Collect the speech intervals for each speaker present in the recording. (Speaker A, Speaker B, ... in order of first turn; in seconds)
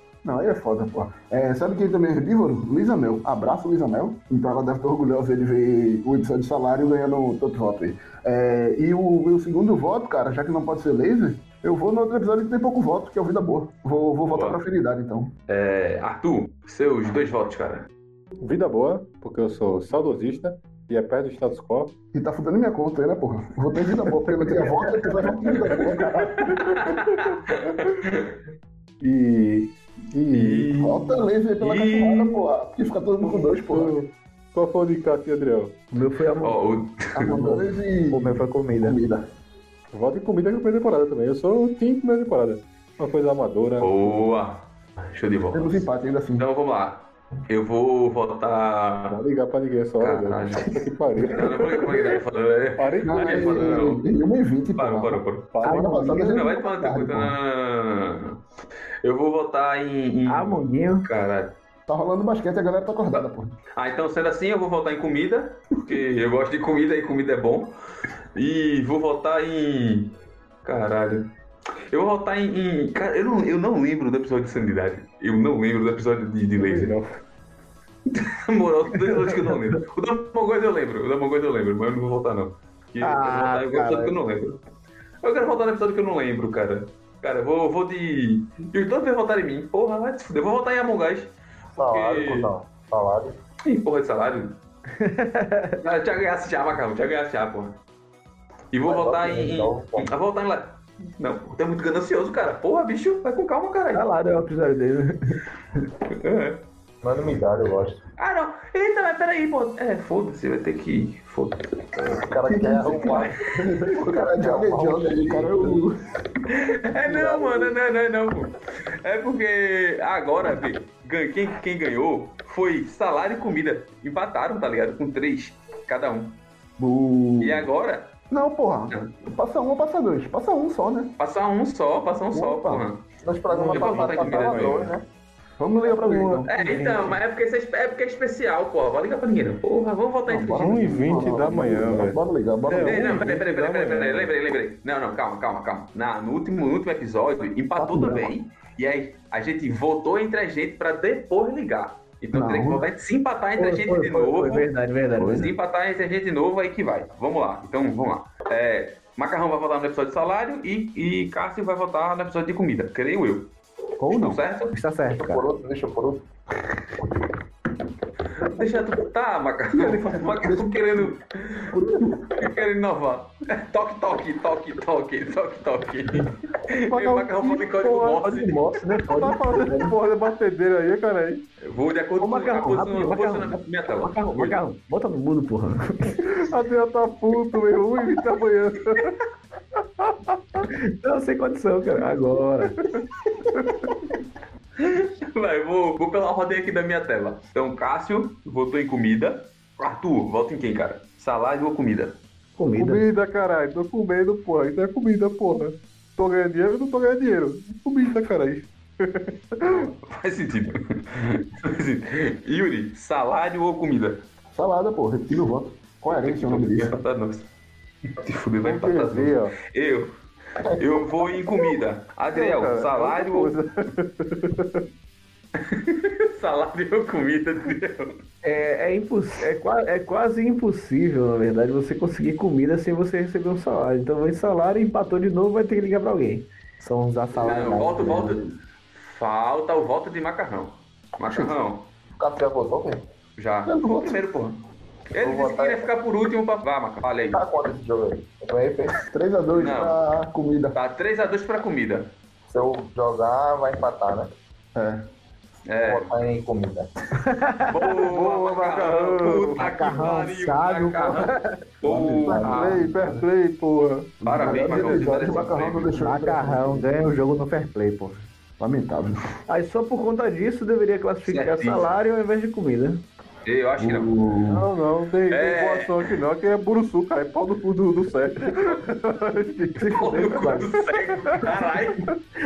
Speaker A: 0.2-15.3, 22.1-26.6, 30.8-34.0, 37.1-39.3, 45.5-46.5, 53.1-57.4, 61.9-63.5, 112.5-115.9, 126.8-127.7, 128.3-131.1, 132.3-132.9, 135.6-137.1, 140.3-143.3, 147.8-148.3, 152.3-152.8, 169.7-171.2, 171.7-172.6, 214.5-217.0, 243.7-244.2, 249.1-250.8, 254.8-255.1, 261.8-263.2, 264.2-266.9, 268.6-269.4, 273.8-274.7
Speaker B: 14.3-14.6, 15.5-17.9, 26.4-28.3, 30.3-32.5, 36.4-37.4, 43.8-45.9, 46.4-49.2, 50.0-54.0, 54.8-58.4, 59.0-61.5, 63.1-67.8, 68.3-71.3, 71.9-76.9, 78.1-84.6, 85.2-92.5, 93.6-94.6, 95.8-97.8, 98.7-104.1, 106.1-106.6, 108.2-112.2, 116.5-126.4, 127.4-128.1, 131.2-133.1, 133.7-134.9, 136.4-140.7, 142.8-154.7, 155.2-163.5, 164.1-164.7, 168.4-178.7, 181.6-184.6, 194.8-202.2, 209.6-214.2, 216.1-217.5, 218.2-223.6, 225.6-228.2, 237.3-238.4, 238.9-241.9, 243.4-244.6, 245.1-247.4, 249.6-250.0, 250.7-252.1, 255.7-256.1, 257.7-262.9, 264.2-265.9, 271.3-271.9, 273.4-274.2, 275.3-276.2, 279.8-282.1
Speaker C: 18.4-21.9, 24.2-24.9, 25.9-27.9, 29.0-30.9, 33.2-35.8, 39.9-43.9, 49.1-52.1, 52.8-54.0, 55.5-56.2, 76.6-77.2, 133.5-134.9, 140.6-144.3, 176.7-178.2, 179.0-181.4, 186.2-189.2, 190.0-190.7, 193.6-193.8, 202.8-209.9, 218.6-219.6, 222.3-224.8, 257.8-259.9, 262.2-264.2, 274.5-280.1
Speaker D: 35.9-36.6, 55.6-56.2, 60.3-61.1, 79.1-79.6, 83.0-84.1, 95.0-95.8, 103.9-105.4, 135.9-136.4, 153.6-155.5, 178.1-179.9, 182.2-186.3, 190.6-192.8, 202.6-203.0, 228.4-236.5, 257.2-257.7, 269.5-273.0, 279.8-280.8
Speaker E: 38.1-39.0, 164.0-165.4, 236.8-238.3, 259.6-261.3, 265.9-268.2
Speaker F: 91.8-93.4, 98.8-100.1, 107.0-108.0, 112.2-115.8, 117.0-117.8, 133.2-135.0, 165.1-166.2, 242.2-243.0, 245.2-245.9, 247.3-249.0, 252.5-254.3, 255.8-256.9